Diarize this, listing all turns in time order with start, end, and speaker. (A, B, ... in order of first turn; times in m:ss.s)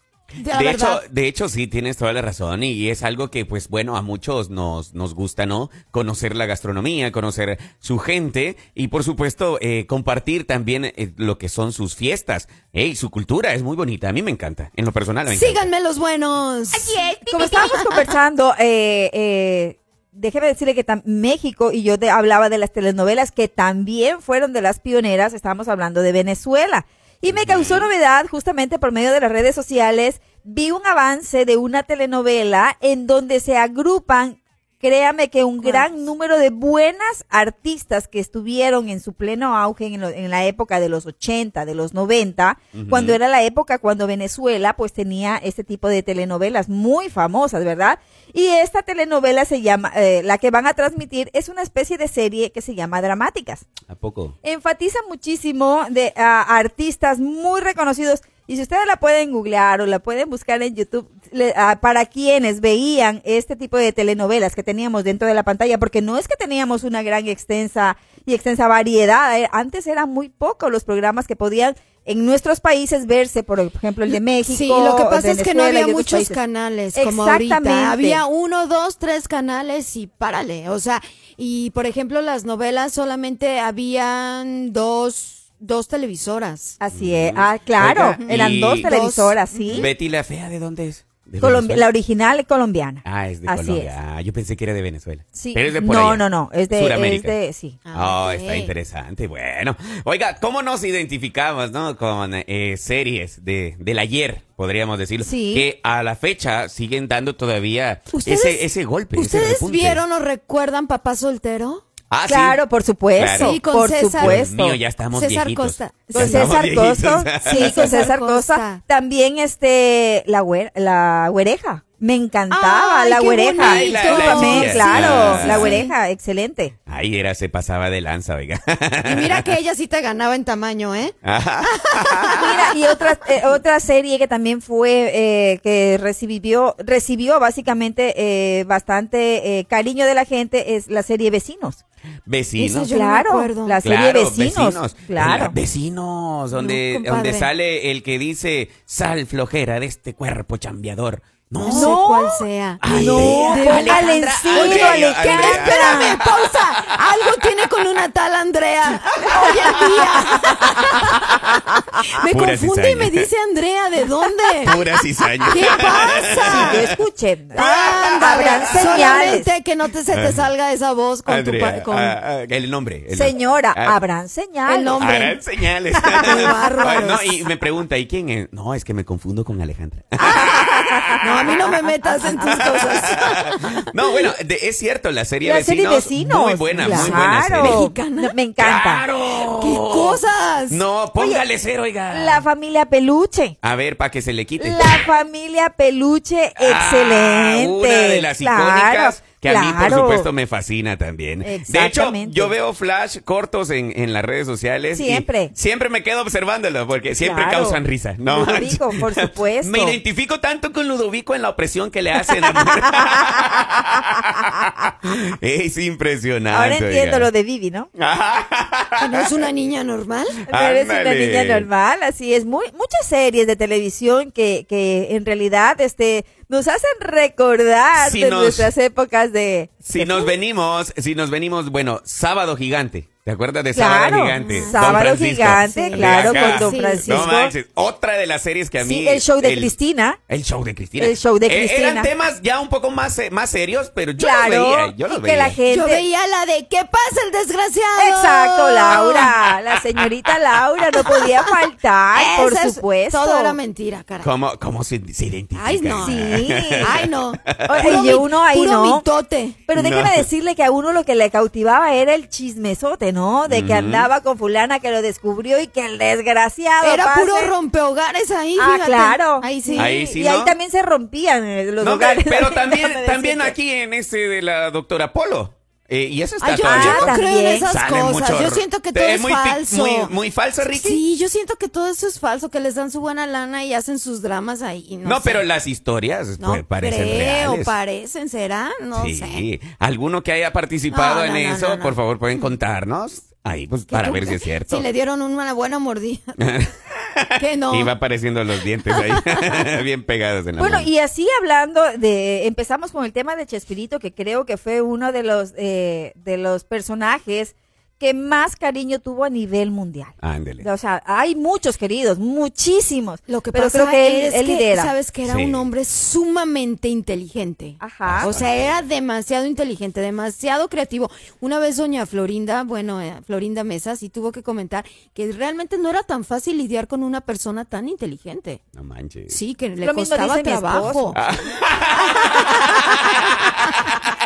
0:00.4-0:01.0 A
0:00.5-0:15.7 B
0:15.3-0:18.2 A
0:16.7-0:53.6 C
0:27.3-0:27.9 B
0:35.6-0:35.9 A
0:42.7-0:43.2 B
0:53.9-0:54.3 B
0:54.4-1:16.4 C
1:14.1-1:26.8 A
1:16.9-1:18.2 C
1:26.8-1:29.9 C
1:26.9-1:28.9 B
1:28.2-1:29.9 A
1:29.7-1:31.9 B
1:31.4-1:33.9 C
1:33.0-1:37.4 B
1:35.4-1:37.8 C
1:37.8-1:38.7 A
1:37.9-1:50.0 B
1:45.2-1:45.7 C
1:48.1-1:51.8 A
1:52.1-1:52.6 B
1:52.3-1:54.8 C
1:53.2-1:53.6 B
1:53.3-1:54.5 A
1:54.2-1:58.0 B
1:55.1-1:56.6 A
1:56.1-2:06.7 C
1:57.4-1:58.8 A
2:02.5-2:05.9 A
2:03.6-2:05.8 B
2:06.9-2:09.5 B
2:09.0-2:11.2 A
2:11.2-2:12.7 B
2:11.8-2:12.5 A
2:12.2-2:21.8 C
2:22.3-2:22.9 B
2:22.6-2:23.8 A
2:22.8-2:25.6 C
2:23.8-2:32.0 B
2:26.5-2:27.5 A
2:31.6-2:41.5 A
2:31.7-2:36.2 C
2:32.8-2:36.4 B
2:39.4-2:40.4 C
2:39.4-2:39.8 B
2:42.1-2:44.8 A
2:42.3-2:43.3 B
2:44.6-2:47.0 B
2:45.5-2:46.8 A
2:46.4-2:49.5 C
2:47.5-2:52.2 A
2:47.6-2:49.3 B
2:50.1-2:50.5 B
2:51.3-2:54.0 B
2:53.1-2:55.0 C
2:54.7-2:55.4 A
2:55.0-3:01.6 B
2:56.1-2:56.6 C
2:56.2-2:57.4 A
3:00.2-3:04.3 A
3:00.8-3:01.7 C
3:02.2-3:07.8 B
3:02.3-3:02.6 C
3:05.4-3:09.0 C
3:06.8-3:08.4 A
3:08.6-3:12.5 B
3:09.5-3:10.8 A
3:11.2-3:11.5 C
3:12.1-3:13.6 C
3:13.6-3:15.1 B
3:14.6-3:20.3 C
3:16.6-3:37.3 B
3:21.4-3:22.5 C
3:24.9-3:25.5 C
3:27.2-3:30.0 C
3:36.5-3:37.9 C
3:38.0-3:39.4 B
3:39.0-3:40.4 A
3:40.5-3:50.3 C
3:40.5-3:41.7 B
3:48.0-3:48.7 B
3:49.8-3:59.8 B
3:53.7-3:57.5 C
3:54.4-3:55.0 A
3:55.6-3:57.3 A
3:58.8-4:00.2 C
4:00.3-4:05.6 B
4:01.0-4:02.1 C
4:04.2-4:06.0 C
4:05.7-4:09.3 A
4:08.0-4:13.6 C
4:09.0-4:09.2 B
4:11.1-4:11.5 A
4:12.1-4:14.3 A
4:14.2-4:18.2 B
4:15.5-4:19.6 A
4:16.0-4:17.0 C
4:17.7-4:19.0 C
4:19.7-4:27.5 C
4:19.7-4:20.3 B
4:23.5-4:24.1 B
4:26.8-4:30.0 A
4:28.6-4:33.6 C
4:29.8-4:30.6 B
4:31.8-4:41.0 B
4:36.4-4:40.1 A
4:36.6-4:37.7 C
4:40.7-4:45.4 A
4:45.0-4:47.7 B
4:46.4-4:49.4 A
4:49.0-4:54.8 B
4:50.9-4:52.5 A
4:53.9-4:56.4 A
4:56.4-5:00.9 B
4:57.4-4:58.0 A
4:58.9-4:59.6 A
5:00.6-5:14.9 C
5:10.2-5:10.7 B
5:13.3-5:28.6 A
5:15.2-5:15.7 B
5:17.8-5:18.3 C
5:18.0-5:18.8 B
5:28.8-5:29.4 B
5:29.3-5:31.2 A
5:29.8-5:31.2 C
5:31.2-5:33.3 B
5:32.1-5:32.8 C
5:32.2-5:33.2 A